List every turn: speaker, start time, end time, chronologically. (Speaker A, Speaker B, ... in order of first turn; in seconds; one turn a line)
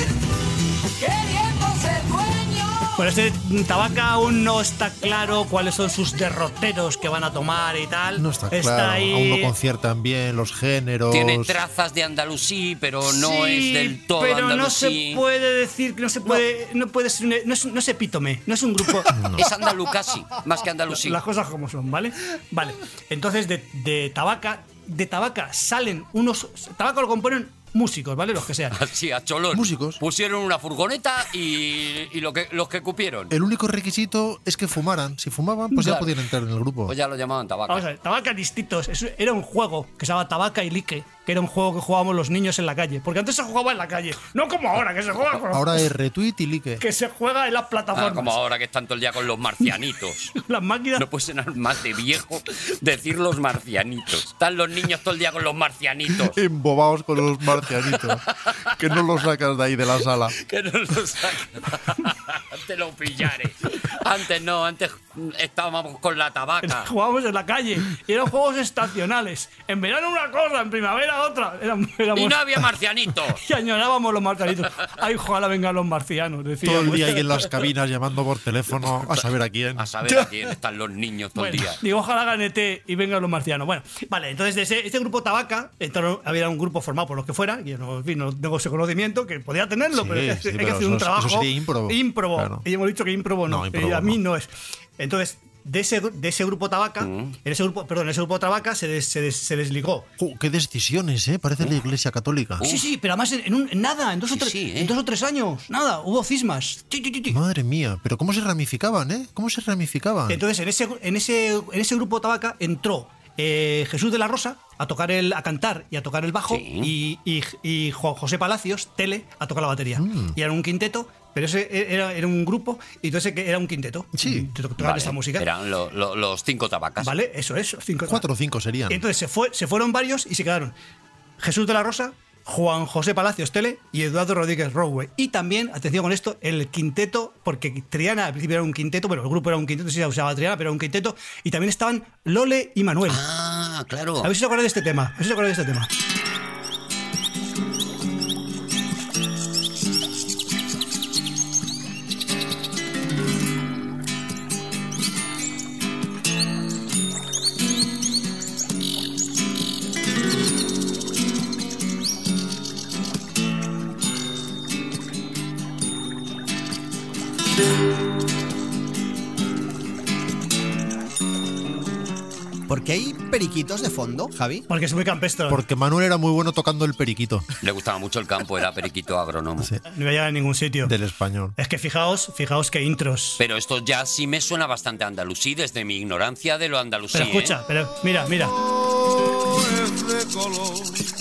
Speaker A: 1.0-3.0
Speaker B: 3.0-9.5
Speaker C: 8.2-11.6
Speaker D: 11.1-15.2
Speaker B: 13.1-19.2
Speaker C: 19.1-19.5
Speaker D: 19.4-21.2
Speaker B: 20.9-28.8
Speaker D: 28.7-33.3
Speaker C: 29.5-30.0
Speaker C: 33.3-36.9
Speaker D: 35.8-36.2
Speaker D: 36.9-37.9
Speaker B: 37.7-45.9
Speaker C: 45.5-46.8
Speaker B: 46.8-48.4
Speaker D: 47.9-50.4
Speaker B: 50.4-51.0
Speaker D: 51.0-56.4
Speaker C: 56.3-58.2
Speaker D: 57.6-59.0
Speaker C: 58.8-60.4
Speaker D: 60.4-66.9
Speaker B: 66.6-72.4
Speaker D: 72.2-73.4
Speaker B: 73.4-77.3
Speaker C: 76.6-80.3
Speaker D: 79.8-81.8
Speaker B: 81.4-100.1
Speaker C: 89.9-92.7
Speaker C: 93.5-94.2
Speaker D: 97.0-97.3
Speaker C: 100.2-102.6
Speaker D: 102.6-102.9
Speaker B: 102.6-107.4
Speaker D: 104.3-104.9
Speaker C: 107.3-110.4
Speaker B: 110.3-125.5
Speaker D: 116.5-116.9
Speaker C: 120.0-120.4
Speaker C: 124.2-124.5
Speaker D: 124.8-127.2
Speaker B: 127.0-128.3
Speaker C: 128.1-129.0
Speaker B: 128.9-130.8
Speaker B: 131.4-143.2
Speaker D: 143.1-144.3
Speaker B: 144.2-145.9
Speaker E: 172.7-174.7
Speaker B: 174.7-175.6
Speaker C: 175.5-177.5
Speaker D: 177.6-179.7
Speaker B: 179.9-180.9
Speaker C: 180.8-181.6
Speaker B: 181.6-183.4
Speaker D: 183.4-187.6
Speaker B: 187.1-188.6